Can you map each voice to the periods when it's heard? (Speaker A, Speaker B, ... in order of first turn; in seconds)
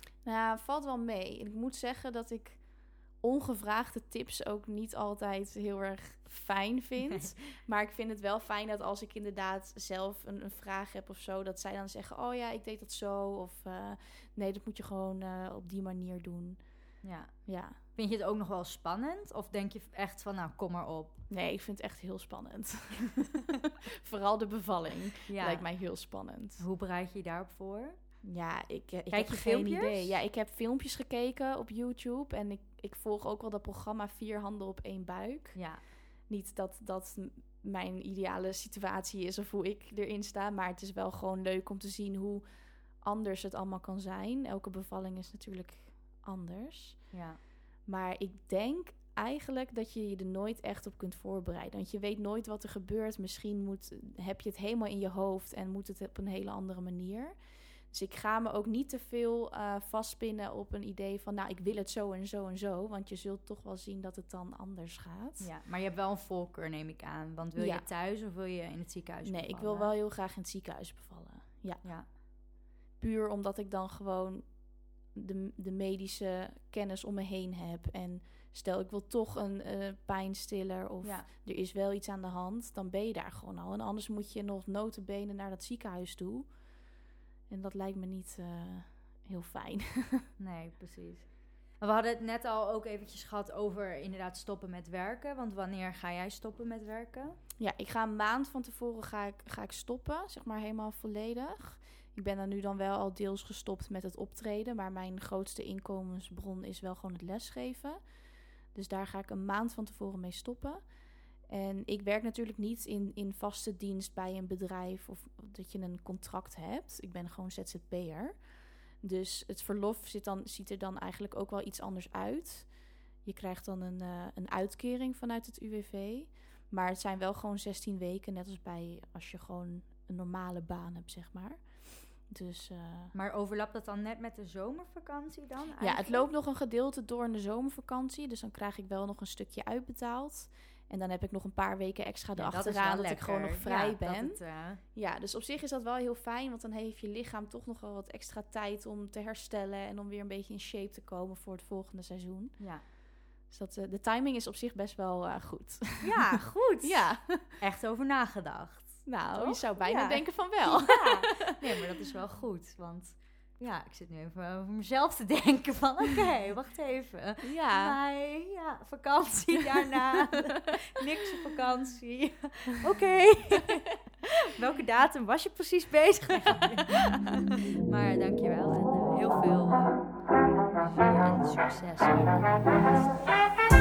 Speaker A: 0.2-17.8, 21.3-23.4, 24.0-26.6, 28.2-47.2, 47.9-65.5, 67.6-67.9, 69.2-72.2, 73.0-86.6, 87.5-90.3, 97.6-133.1, 135.8-152.9, 153.4-157.6, 159.1-161.5, 167.4-168.0
Speaker B: 17.0-21.2, 25.3-28.0, 29.1-30.2, 35.5-35.8, 47.1-47.4, 65.4-69.9, 71.8-72.1, 81.0-81.3, 90.4-97.4, 133.1-136.3, 142.4-144.8, 152.6-152.9, 156.0-182.9